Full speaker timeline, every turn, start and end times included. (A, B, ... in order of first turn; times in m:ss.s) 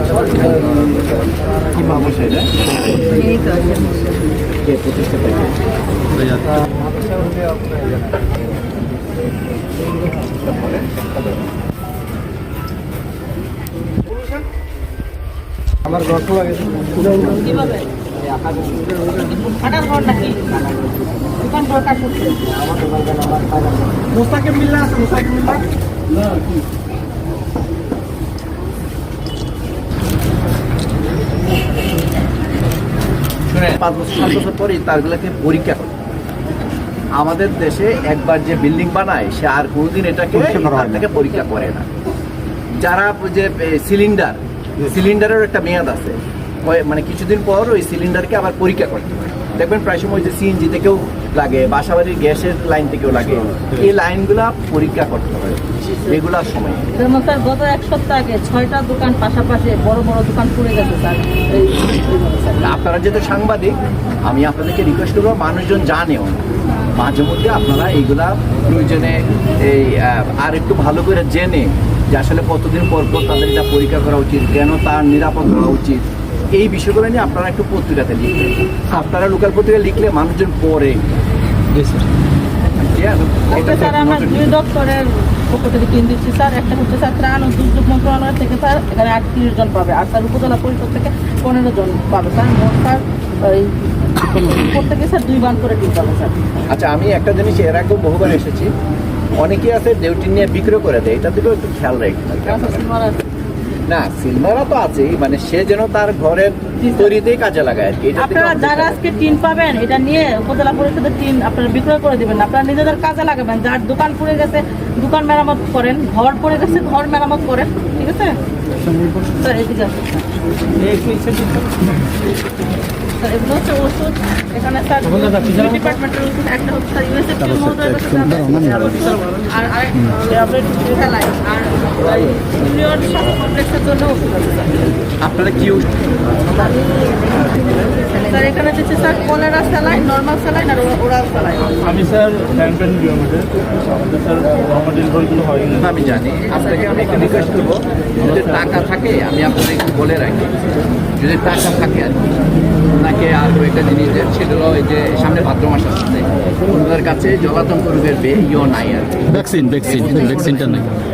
0:00.5-0:00.7 A
0:01.7-0:02.5 A
0:03.1-0:03.7 B
0:04.6-0:05.6 A
0:06.2-0:06.5 C
0:10.4-0:11.1 A
0:17.0-0:17.8 B
0:18.4-0:18.7 A
0:19.1-0:20.6 B
0:21.3-0:22.8 B
0:24.0-0:25.6 A
0:33.5-0:35.9 A
0:37.2-0:41.9 A
0:40.4-0:41.0 C
0:42.7-0:56.9 A
0:56.9-1:02.7 B
1:02.6-1:21.0 A
1:21.7-1:22.0 C
1:22.6-1:24.5 A
1:23.5-1:36.6 B
1:36.7-1:38.7 A
1:39.4-1:42.8 A
1:42.4-1:43.2 B
1:43.9-1:49.0 A
1:46.8-1:47.1 B
1:48.2-1:58.4 B
1:58.9-1:59.2 C
1:59.3-2:00.1 B
2:00.8-2:01.8 D
2:03.2-2:14.7 B
2:07.5-2:09.0 C
2:15.2-2:15.9 A
2:16.5-2:17.1 B
2:18.1-2:22.1 B
2:21.9-2:25.8 D
2:25.7-2:32.3 A
2:32.9-2:40.6 A
2:39.3-2:40.9 C